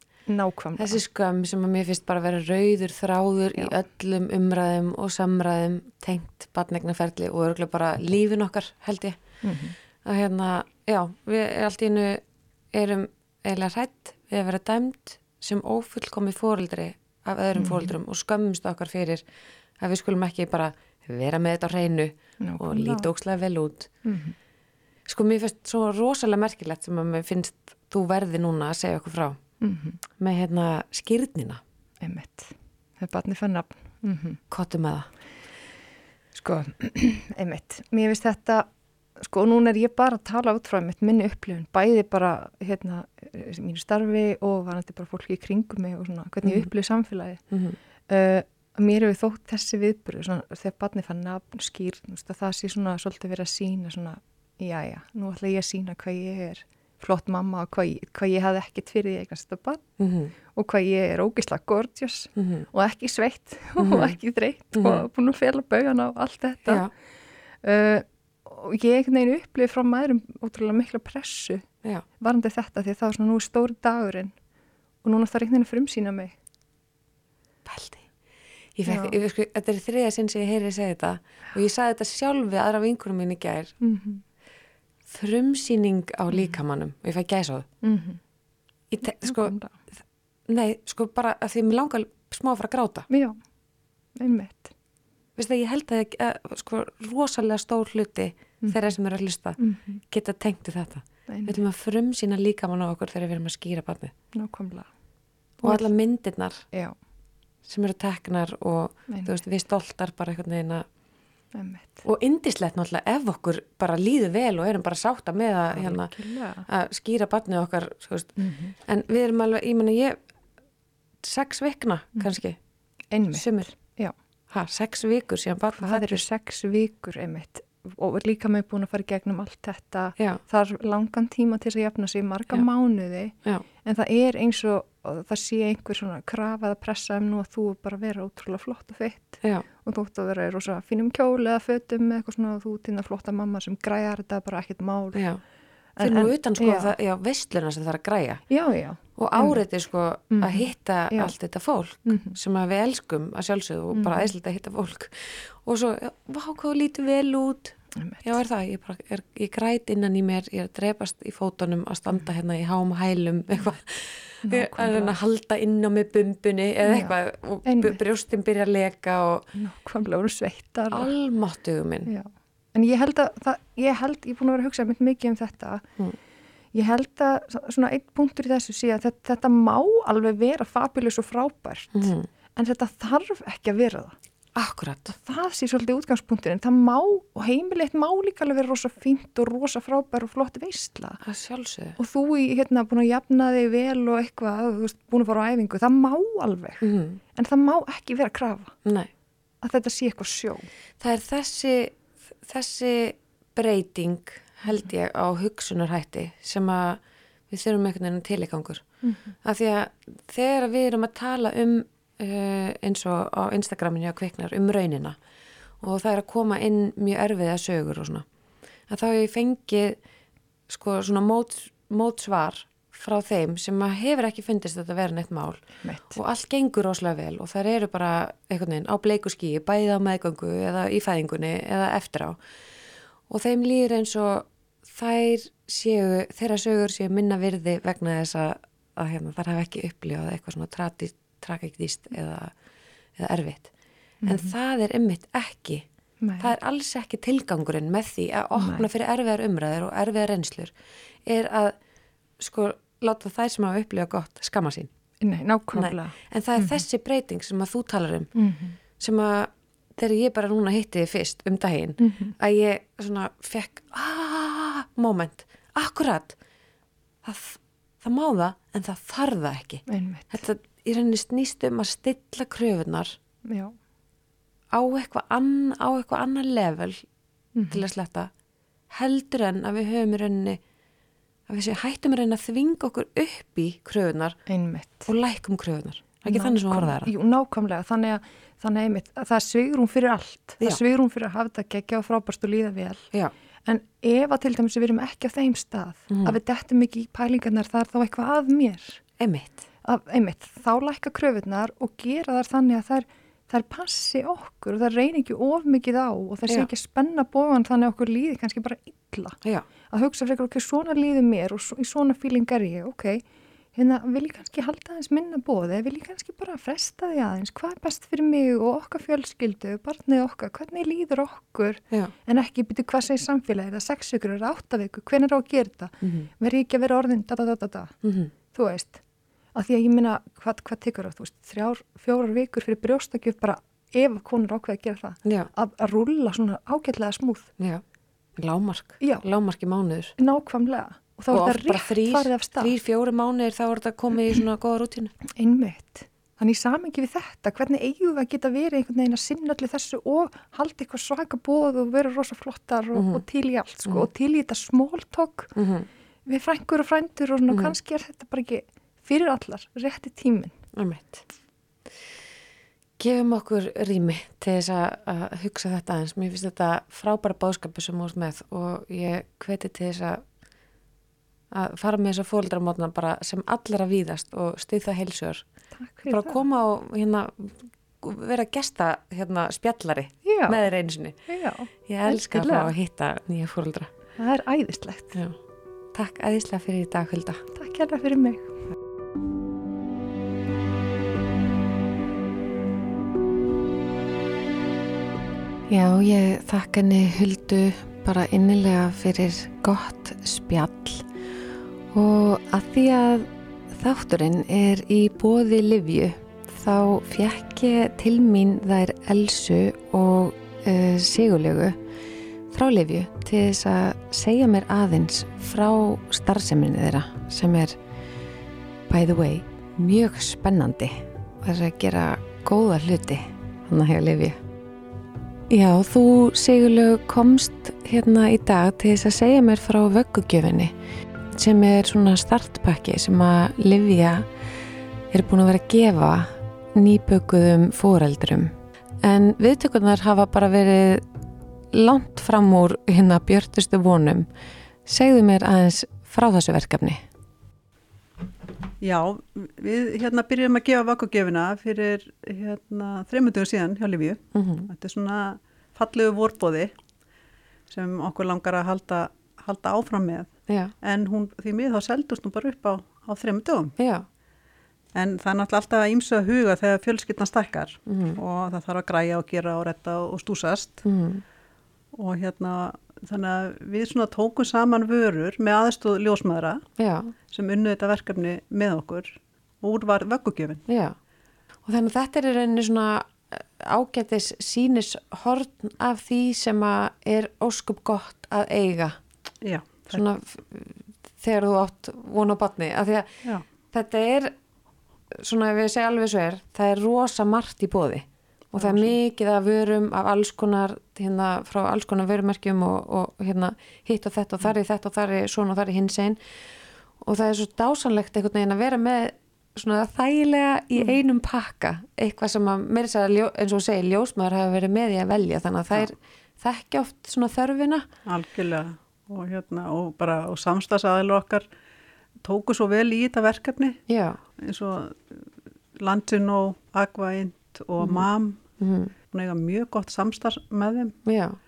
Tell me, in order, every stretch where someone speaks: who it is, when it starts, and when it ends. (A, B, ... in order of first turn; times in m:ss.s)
0:00.3-0:01.0 A
0:00.8-0:09.2 B
0:09.4-0:09.8 A
0:10.0-0:19.2 B
0:17.6-0:17.9 A
0:19.8-0:23.9 B
0:22.4-0:23.1 A
0:24.0-0:24.4 A
0:25.1-0:29.4 B
0:29.6-0:30.0 A
0:30.2-0:31.6 B
0:32.0-0:34.4 A
0:34.5-0:35.1 B
0:36.3-0:47.4 A
0:47.5-0:47.8 B
0:48.1-0:59.8 A
1:00.0-1:00.3 B
1:00.5-1:06.9 A
1:02.4-1:02.7 B
1:03.8-1:04.1 B
1:04.7-1:05.0 B
1:06.6-1:06.9 B
1:07.6-1:11.6 A
1:12.2-1:14.3 A
1:15.0-1:16.3 A
1:17.6-1:18.0 B
1:18.8-1:23.7 B
1:18.8-1:19.2 A
1:23.8-1:24.2 A
1:25.1-1:27.7 B
1:27.8-1:28.2 A
1:28.9-1:29.5 B
1:29.0-1:29.7 A
1:30.5-1:33.1 B
1:33.1-1:33.4 A
1:34.2-1:34.7 A
1:35.4-1:39.6 B
1:39.6-1:40.0 A
1:40.1-1:44.1 B
1:41.3-1:41.6 A
1:44.3-1:44.9 A
1:45.6-1:46.6 B
1:45.6-1:45.9 A
1:47.6-1:50.8 B
1:49.1-1:49.3 A
1:51.5-1:52.0 A
1:52.0-1:56.1 B
1:55.7-1:56.6 A
1:56.6-1:58.3 B
1:58.4-1:58.8 A
1:58.8-2:00.2 B
2:01.2-2:02.6 B
2:03.1-2:04.1 A
2:03.3-2:03.7 B
2:04.5-2:06.2 B
2:05.7-2:25.2 A
2:25.1-2:25.4 B
2:26.0-2:26.9 A
2:26.0-2:28.4 B
2:28.5-2:29.6 A
2:29.2-2:49.5 B
2:30.3-2:31.3 A
2:32.0-2:32.4 A
2:33.9-2:34.3 A
2:38.0-2:38.4 A
2:44.4-2:45.2 A
2:46.8-2:48.0 A
2:49.5-2:51.1 A
2:50.9-2:52.1 B
2:52.0-2:55.8 A
2:56.7-3:04.1 A
3:01.9-3:02.3 B
3:04.6-3:05.1 B
3:05.1-3:11.2 A
3:11.2-3:12.0 B
3:12.0-3:18.7 A
3:16.8-3:17.2 B
3:18.8-3:19.1 B
3:19.6-3:20.7 A
3:21.0-3:28.8 B
3:29.0-3:29.3 A
3:29.4-3:35.2 B
3:35.8-3:38.2 B
3:38.9-3:40.0 B
3:40.7-3:52.4 B
3:45.8-3:46.2 A
3:53.3-4:02.5 B
4:03.2-4:03.7 B
4:04.2-4:04.5 A
4:04.2-4:05.8 B
4:06.2-4:06.5 A
4:06.4-4:10.7 B
4:08.6-4:08.9 A
4:11.2-4:11.8 B
4:12.4-4:14.9 B
4:15.2-4:16.8 A
4:15.7-4:18.3 B
4:18.3-4:18.8 A
4:19.0-4:26.4 B
4:22.0-4:22.3 A
4:27.2-4:27.6 A
4:28.0-4:33.2 B
4:29.9-4:30.4 A
4:33.4-4:33.7 A
4:34.7-4:37.0 B
4:37.5-4:37.8 A
4:37.7-4:38.3 B
4:38.9-4:40.6 B
4:41.5-4:44.4 B
4:44.5-4:45.1 A
4:45.0-4:47.1 B
4:46.3-4:53.1 A
4:53.6-4:59.0 A
4:56.1-4:56.4 B
4:59.2-4:59.6 B
4:59.8-5:09.4 A
5:09.9-5:27.9 A
5:26.0-5:26.3 B
5:28.0-5:28.3 B
5:28.5-5:29.0 A
5:29.5-5:37.5 A
5:38.4-5:40.1 B
5:40.2-5:42.7 A
5:41.3-5:45.1 B
5:45.4-5:55.5 A
5:52.9-5:53.2 B
5:55.6-5:55.9 B
5:56.2-6:00.6 A
6:00.7-6:01.2 B
6:03.0-6:10.2 B
6:11.5-6:15.4 B
6:15.7-6:16.4 A
6:16.0-6:21.2 B
6:20.2-6:20.6 A
6:21.3-6:22.7 A
6:21.8-6:23.9 B
6:24.2-6:25.2 A
6:25.9-6:27.4 B
6:27.5-6:28.6 A
6:35.7-6:41.0 B
6:41.9-6:51.8 B
6:52.5-6:57.8 B
6:58.9-7:04.4 B
7:05.5-7:10.7 B
7:11.3-7:14.3 B
7:15.1-7:21.0 B
7:21.7-7:24.3 B
7:24.8-7:27.0 B
7:28.8-7:36.7 C
7:34.3-7:34.7 B
7:37.7-7:43.8 C
7:43.8-7:44.1 B
7:44.9-7:50.8 C
7:47.9-7:48.2 B
7:50.8-7:51.2 B
7:51.9-7:56.7 C
7:56.8-7:57.1 B
7:57.3-8:00.6 C
8:00.7-8:01.0 B
8:01.6-8:09.0 B
8:09.4-8:10.0 C
8:09.9-8:13.1 B
8:13.7-8:14.3 B
8:15.1-8:26.2 B
8:27.0-8:37.8 B
8:38.0-8:41.5 C
8:42.2-8:51.0 C
8:43.9-8:44.2 B
8:47.8-8:48.0 B
8:48.6-8:48.9 B
8:51.0-8:51.4 B